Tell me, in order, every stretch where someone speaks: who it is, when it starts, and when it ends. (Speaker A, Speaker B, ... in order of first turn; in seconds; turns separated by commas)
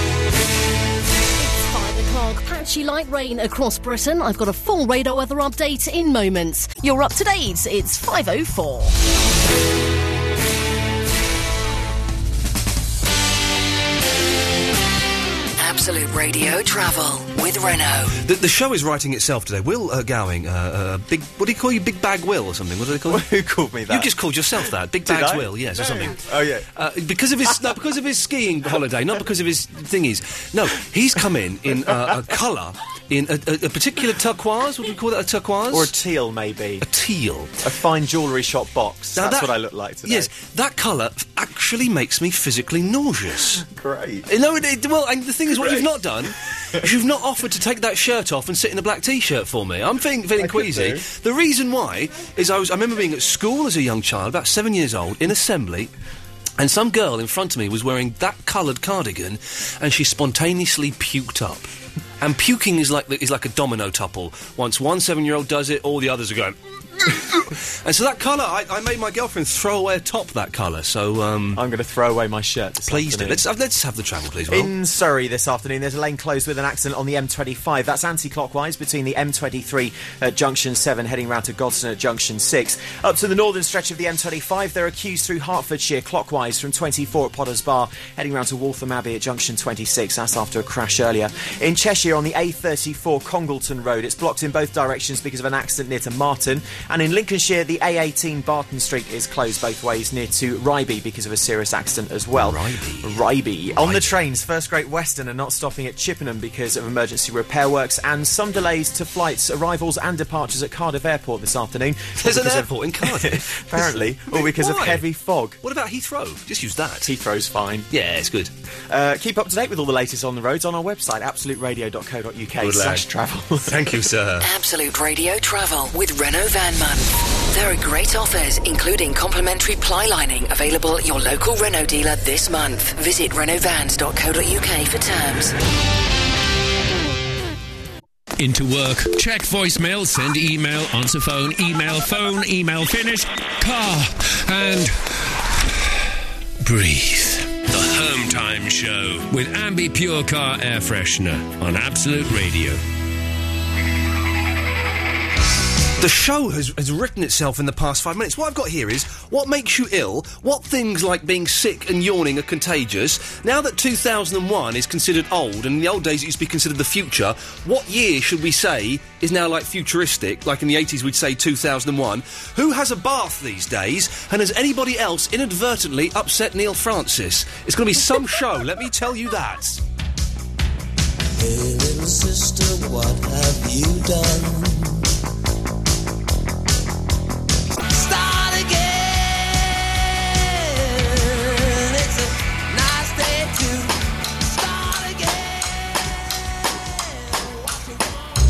Speaker A: 1.4-8.9, Speaker B: 15.6-18.2, Speaker C: 18.2-23.3, Speaker D: 23.1-24.1, Speaker C: 23.9-35.9, Speaker D: 25.1-26.7, Speaker D: 35.7-36.8, Speaker C: 36.8-37.6, Speaker D: 37.6-40.3, Speaker C: 39.2-39.5, Speaker C: 40.0-43.6, Speaker D: 43.6-44.3, Speaker C: 44.3-55.9, Speaker D: 45.6-45.9, Speaker D: 50.4-51.0, Speaker C: 56.6-61.7, Speaker C: 62.2-71.6, Speaker D: 71.5-73.4, Speaker C: 72.9-74.7, Speaker D: 74.5-115.6, Speaker C: 102.3-103.2, Speaker C: 103.7-104.2, Speaker C: 112.2-115.0, Speaker C: 115.6-117.1, Speaker D: 117.0-117.9, Speaker C: 117.9-118.5, Speaker D: 118.9-123.8, Speaker C: 122.6-123.0, Speaker C: 123.6-124.5, Speaker B: 124.4-135.6, Speaker E: 138.4-145.7, Speaker E: 146.6-152.8, Speaker C: 156.0-179.8, Speaker F: 181.4-185.1, Speaker F: 187.9-196.1, Speaker F: 197.2-197.8